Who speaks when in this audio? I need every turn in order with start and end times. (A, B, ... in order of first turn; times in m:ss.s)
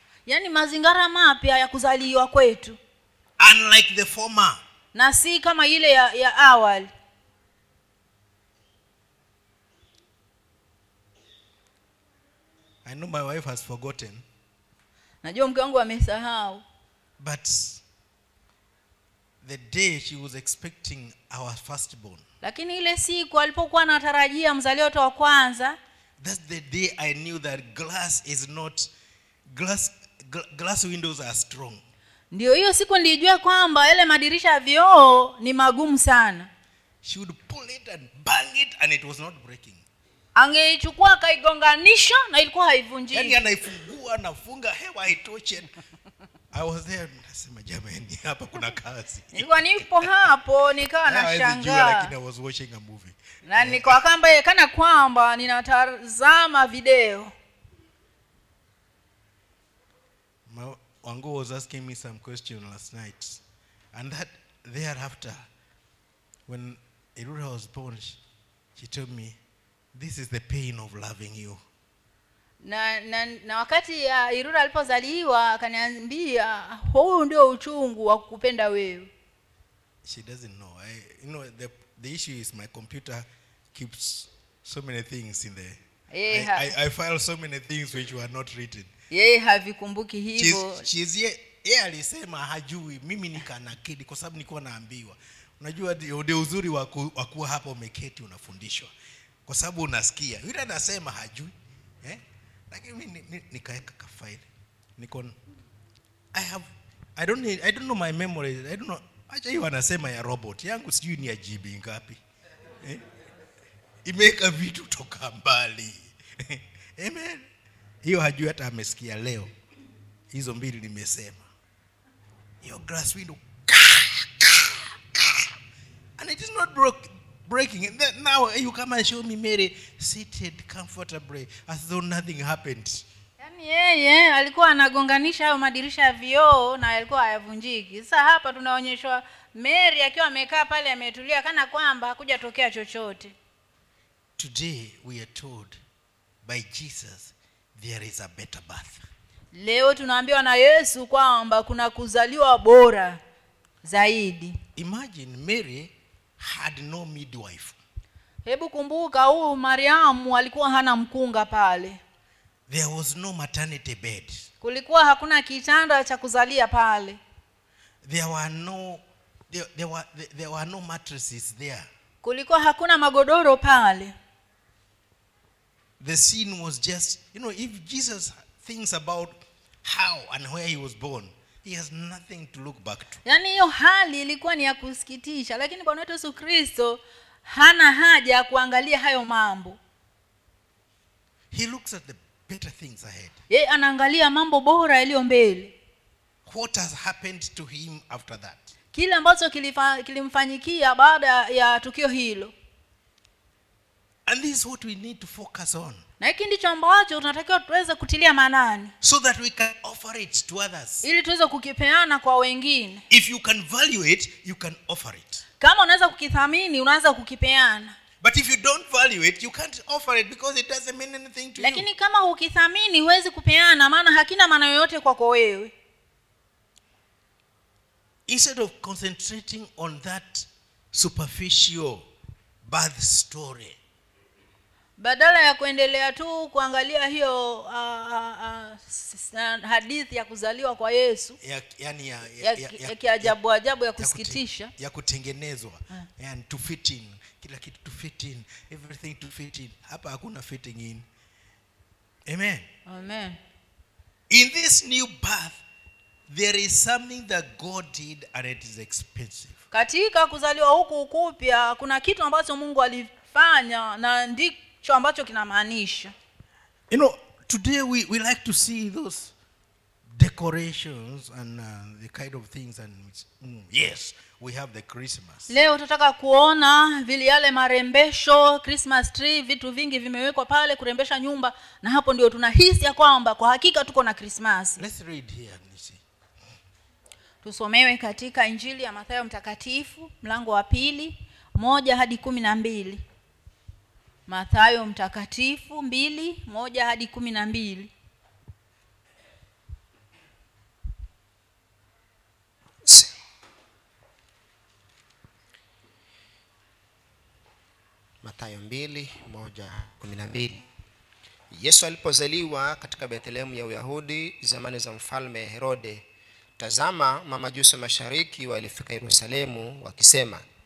0:00.2-0:02.8 A
0:03.4-0:04.6 B
0:04.9-0:06.9 A
0:12.8-0:14.2 B
0:15.2-0:16.6 A
0:17.2-0:17.8 B
0:19.4-0:22.2 B
0:22.4-0:25.8 A
0:26.2-0:28.9 B
0:29.5-0:31.8 B
0:32.3-0:36.5 A
0:37.0-0:39.8 B
0:40.3-0:43.4 A
0:43.1-0:45.7 B
0:46.5-0:50.2 B
0:49.3-0:52.1 A
0:51.0-0:54.0 B
0:53.4-0:57.3 A
1:00.5-1:03.4 B
1:03.9-1:05.4 B
1:06.5-1:08.2 B
1:08.8-1:09.4 B
1:09.9-1:11.6 B
1:12.6-1:19.1 A
1:20.0-1:28.9 B
1:26.1-1:26.7 A
1:29.1-1:30.8 A
1:30.4-1:38.9 B
1:39.4-1:41.5 B
1:42.0-1:44.4 B
1:45.0-1:45.4 B
1:46.3-1:52.2 B
1:54.0-1:57.5 B
1:58.0-1:59.5 B
2:00.3-2:01.4 B
2:02.6-2:05.5 B
2:06.2-2:13.0 B
2:13.4-2:23.3 A
2:24.4-2:25.8 B
2:26.4-2:29.0 B
2:29.5-2:33.2 A
2:33.8-2:34.6 A
2:34.8-2:37.8 B
2:38.4-2:42.0 A
2:42.7-2:44.5 B
2:44.6-2:47.2 A
2:48.0-2:51.9 B
2:52.2-2:54.1 A
2:56.0-3:03.2 B
3:03.2-3:09.8 A
3:11.5-3:13.4 B
3:13.5-3:15.7 A
3:16.4-3:18.7 B
3:18.9-3:22.5 A
3:24.3-3:26.0 B
3:26.2-3:28.9 A
3:29.0-3:31.0 B
3:31.0-3:33.0 A
3:33.1-3:35.4 B
3:35.6-3:38.0 A
3:38.2-3:41.8 B
3:41.6-3:45.7 A
3:48.3-3:52.0 B
3:52.6-3:53.8 B
3:55.0-4:01.4 A
4:01.4-4:03.4 B
4:02.4-4:04.7 A
4:04.0-4:11.0 B
4:12.2-4:12.7 B
4:12.8-4:13.4 A
4:14.3-4:15.6 B
4:16.3-4:19.6 B
4:19.7-4:26.1 A
4:26.9-4:29.3 B
4:30.1-4:35.5 B
4:35.5-4:44.8 A
4:44.8-4:46.0 B
4:47.4-4:53.0 A
4:54.3-4:57.9 A
5:02.8-5:03.1 C
5:08.2-5:10.6 C
5:11.5-5:16.0 C
5:16.6-5:20.4 C